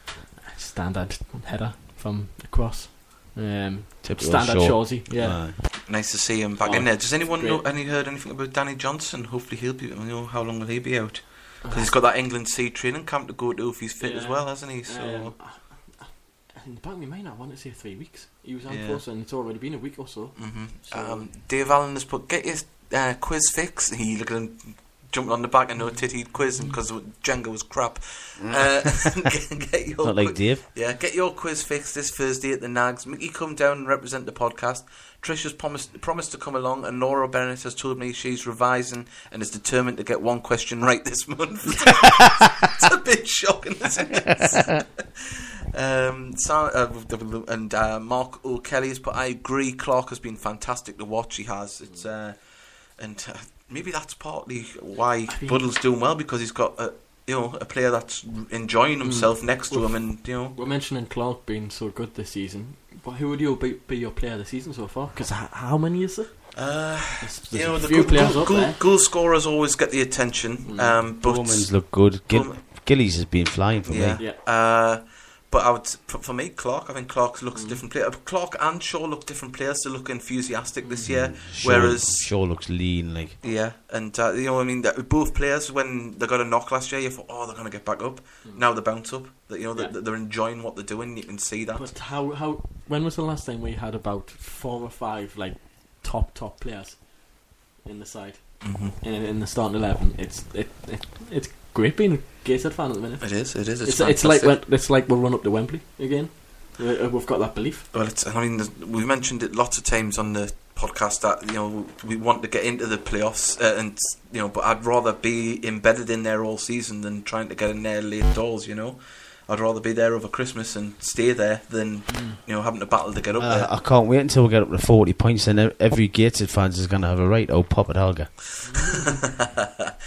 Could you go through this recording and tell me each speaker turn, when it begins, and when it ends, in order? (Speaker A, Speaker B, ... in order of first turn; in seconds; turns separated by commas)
Speaker A: 0.3-5.8, Speaker B: 4.0-5.5, Speaker C: 5.8-15.3, Speaker A: 6.6-7.6, Speaker A: 11.6-11.9, Speaker A: 14.0-21.3, Speaker C: 18.7-19.0, Speaker C: 20.4-60.5, Speaker A: 25.8-26.8, Speaker B: 28.4-29.1, Speaker B: 30.0-30.6, Speaker A: 55.3-55.6, Speaker A: 59.0-68.8, Speaker C: 66.5-72.8, Speaker A: 70.6-71.0, Speaker B: 71.2-74.2, Speaker C: 73.8-82.3, Speaker A: 77.5-77.8, Speaker A: 80.8-81.1, Speaker B: 81.0-83.4, Speaker C: 83.4-91.9, Speaker A: 91.8-107.8, Speaker C: 98.6-99.0, Speaker C: 103.2-104.6, Speaker C: 107.9-123.7, Speaker A: 122.1-122.4, Speaker B: 123.4-128.4, Speaker A: 128.6-129.1, Speaker C: 129.1-129.9